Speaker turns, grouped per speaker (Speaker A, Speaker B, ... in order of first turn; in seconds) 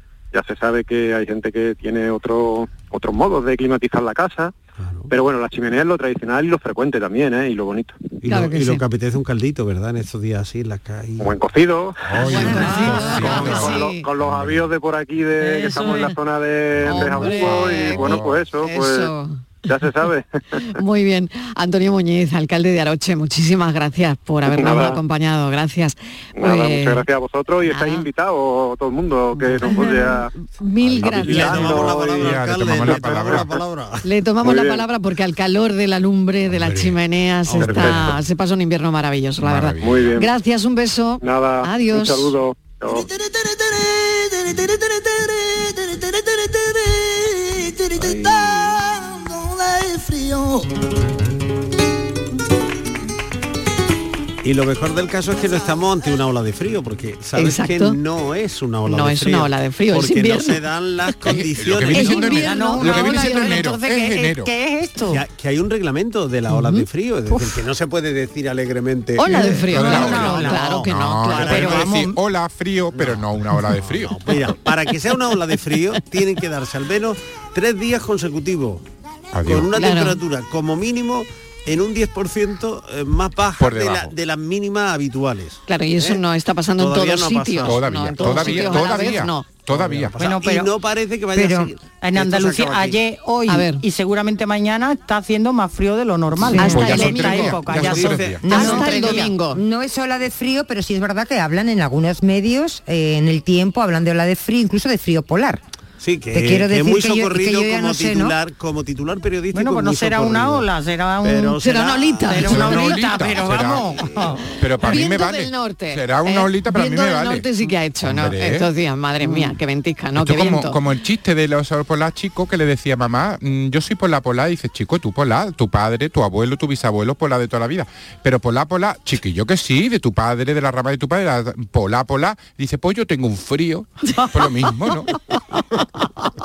Speaker A: 0.3-4.5, 5.1-8.0, 11.2-19.1, 19.6-20.6, 24.5-25.0, 26.4-30.3, 31.0-33.4, 34.4-34.8, 37.6-38.1, 39.8-40.3, 41.2-43.1
Speaker B: 4.8-5.1, 8.2-11.3, 31.0-34.0, 36.5-38.1, 48.0-48.7, 54.4-62.4, 65.1-72.0, 72.9-78.8, 79.4-86.2, 86.8-89.2, 89.7-93.0, 97.7-98.7, 106.0-110.7, 111.2-112.9
Speaker C: 8.2-8.8, 12.2-14.1, 16.8-19.4, 20.6-27.0, 27.6-28.1, 29.6-31.7, 34.0-42.3, 57.3-58.0, 58.9-60.6, 61.9-63.6, 66.5-66.8, 69.2-71.8, 79.8-80.2, 85.7-89.5, 93.5-93.8, 96.5-97.6, 98.5-99.6, 111.6-113.0, 114.8-120.8
Speaker D: 12.0-14.7, 16.7-18.4, 31.1-33.6, 39.4-40.0, 61.2-64.5, 69.7-74.3, 79.3-79.7, 83.6-84.1, 87.6-90.2, 96.5-98.4, 112.4-114.0, 114.6-117.5, 118.0-118.7, 120.2-135.1
Speaker E: 12.6-13.2, 15.4-16.1, 62.0-65.2, 67.3-67.6, 69.4-70.6, 71.4-72.2, 90.2-90.7, 92.0-99.3, 109.5-114.5
Speaker F: 91.3-91.7, 98.4-105.6, 106.3-108.3